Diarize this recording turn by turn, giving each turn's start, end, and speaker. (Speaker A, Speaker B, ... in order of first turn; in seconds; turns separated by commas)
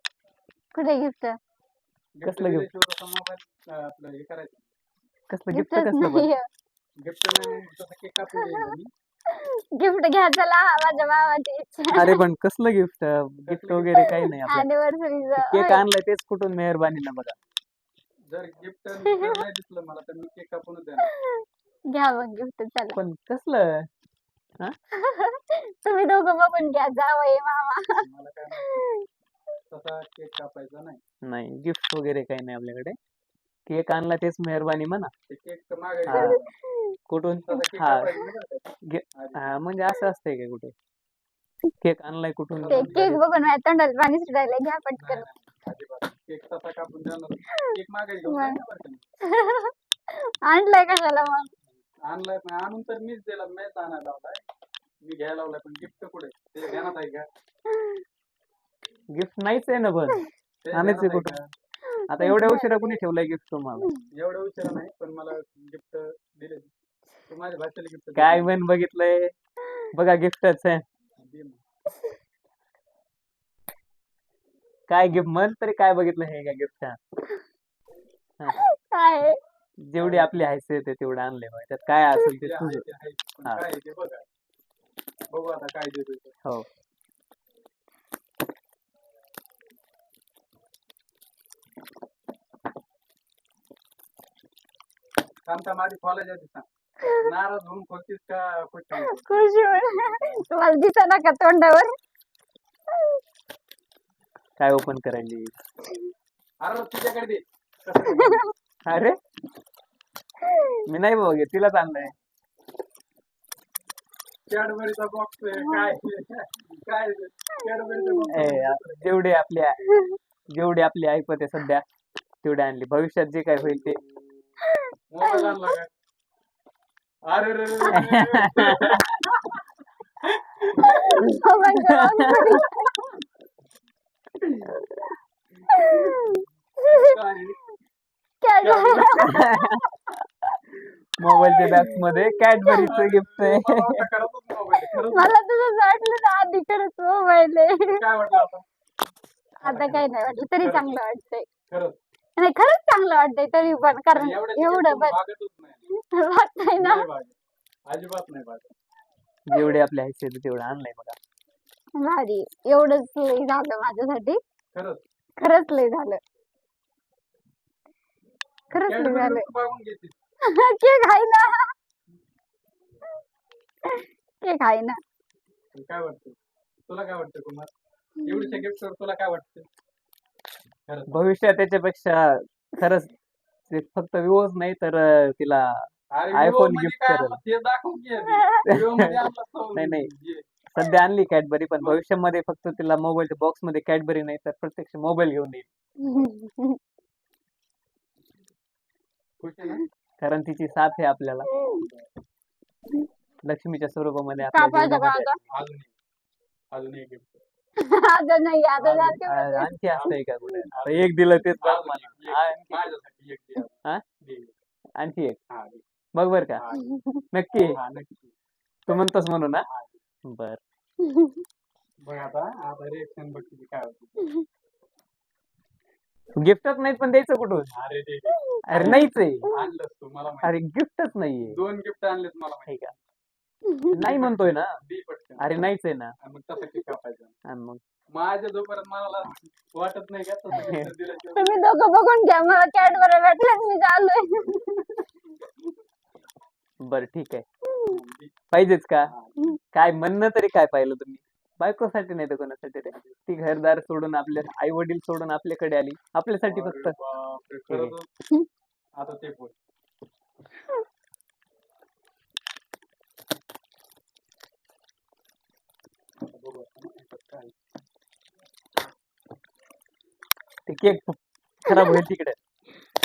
Speaker A: 0.7-1.4, Speaker B: 2.2-4.7, Speaker C: 2.2-2.7, Speaker C: 5.3-6.3, Speaker A: 5.5-6.5, Speaker B: 7.0-8.9, Speaker A: 9.3-12.2, Speaker C: 11.9-14.7, Speaker B: 13.5-14.3, Speaker A: 14.0-15.9, Speaker C: 15.3-17.4, Speaker B: 18.3-21.1, Speaker A: 19.0-19.4, Speaker A: 21.9-23.0, Speaker C: 22.9-23.9, Speaker A: 25.0-28.0, Speaker B: 27.9-28.8, Speaker A: 28.6-29.0, Speaker B: 29.7-31.0, Speaker C: 31.3-33.0, Speaker C: 33.7-35.1, Speaker B: 35.3-36.5, Speaker C: 36.1-36.4, Speaker A: 36.1-36.9, Speaker C: 37.1-38.1, Speaker B: 37.5-39.5, Speaker C: 38.9-40.7, Speaker C: 41.8-43.2, Speaker B: 42.6-43.1, Speaker A: 42.7-45.2, Speaker B: 45.0-49.0, Speaker A: 47.6-48.6, Speaker A: 49.3-49.7, Speaker A: 50.5-51.5, Speaker B: 52.1-54.4, Speaker B: 55.0-57.3, Speaker C: 59.1-61.3, Speaker B: 60.6-61.4, Speaker A: 61.9-63.0, Speaker C: 62.1-63.9, Speaker B: 64.1-66.7, Speaker B: 67.3-68.5, Speaker C: 68.1-69.3, Speaker C: 69.9-70.8, Speaker B: 71.2-71.6, Speaker C: 74.9-77.0, Speaker A: 78.5-79.4, Speaker C: 79.8-82.8, Speaker B: 80.0-80.4, Speaker B: 82.4-84.2, Speaker B: 85.3-86.3, Speaker B: 95.5-96.7, Speaker B: 97.2-100.4, Speaker A: 99.0-101.9, Speaker C: 104.6-105.5, Speaker B: 106.6-108.5, Speaker A: 108.1-108.4, Speaker C: 108.8-109.2, Speaker A: 110.5-110.8, Speaker C: 110.8-112.1, Speaker B: 114.5-119.0, Speaker A: 115.6-115.9, Speaker A: 117.5-118.5, Speaker C: 118.3-119.9, Speaker C: 120.5-121.8, Speaker C: 122.4-124.0, Speaker A: 124.7-125.7, Speaker B: 125.1-125.9, Speaker B: 127.3-129.5, Speaker C: 127.9-129.0, Speaker B: 130.2-131.3, Speaker A: 130.8-132.9, Speaker C: 131.2-132.6, Speaker B: 134.4-134.8, Speaker A: 135.7-137.1, Speaker B: 135.8-136.3, Speaker B: 137.0-137.6, Speaker A: 138.4-139.8, Speaker B: 138.6-139.1, Speaker C: 139.0-139.8, Speaker C: 141.2-144.0, Speaker A: 141.2-142.8, Speaker B: 142.7-145.4, Speaker A: 145.1-148.0, Speaker B: 147.8-148.6, Speaker B: 149.6-150.9, Speaker A: 149.6-151.5, Speaker C: 149.8-150.0, Speaker B: 151.7-152.0, Speaker A: 152.4-155.2, Speaker B: 154.1-155.8, Speaker A: 156.0-157.0, Speaker B: 156.7-157.3, Speaker B: 157.9-158.7, Speaker C: 159.5-161.2, Speaker A: 161.9-164.4, Speaker B: 164.7-165.0, Speaker A: 165.4-166.2, Speaker A: 168.7-169.5, Speaker B: 168.7-170.2, Speaker A: 170.4-171.7, Speaker A: 173.9-175.0, Speaker B: 175.7-176.4, Speaker B: 176.9-177.7, Speaker B: 178.2-179.7, Speaker A: 178.3-178.6, Speaker B: 180.9-181.2, Speaker C: 181.1-183.1, Speaker C: 183.7-187.4, Speaker B: 186.1-190.5, Speaker A: 188.3-188.6, Speaker C: 188.6-190.1, Speaker C: 190.7-195.7, Speaker A: 196.0-196.8, Speaker B: 199.4-199.8, Speaker C: 200.2-201.5, Speaker A: 201.5-201.8, Speaker B: 201.7-202.1, Speaker C: 203.4-205.4, Speaker A: 204.5-205.4, Speaker B: 205.5-205.9, Speaker B: 206.7-207.4, Speaker A: 207.8-209.7, Speaker B: 208.8-209.2, Speaker C: 209.2-212.9, Speaker B: 209.8-210.2, Speaker B: 210.7-214.5, Speaker C: 215.0-215.4, Speaker B: 215.5-215.8, Speaker C: 216.1-216.6, Speaker B: 216.6-217.0, Speaker A: 216.9-217.2, Speaker C: 217.3-217.8, Speaker B: 217.6-218.3, Speaker C: 218.9-219.7, Speaker B: 219.7-219.9, Speaker C: 220.2-220.6, Speaker A: 221.0-221.4, Speaker B: 222.0-224.3, Speaker C: 226.4-227.7, Speaker B: 227.7-230.5, Speaker C: 228.7-229.5, Speaker C: 230.4-231.6, Speaker B: 231.4-232.9, Speaker C: 232.7-232.9, Speaker A: 233.7-233.9, Speaker C: 233.9-234.7, Speaker B: 234.0-235.6, Speaker C: 235.4-236.1, Speaker B: 236.2-237.3, Speaker C: 237.4-237.8, Speaker B: 238.1-241.6, Speaker C: 240.5-240.9, Speaker A: 241.3-244.8, Speaker C: 246.8-247.4, Speaker B: 247.8-248.3, Speaker C: 248.5-249.1, Speaker B: 249.1-249.3, Speaker C: 249.7-257.0, Speaker B: 252.9-253.2, Speaker B: 256.4-258.1, Speaker C: 257.7-257.9, Speaker B: 259.0-259.5, Speaker B: 266.2-267.5, Speaker C: 270.7-272.4, Speaker A: 271.7-272.0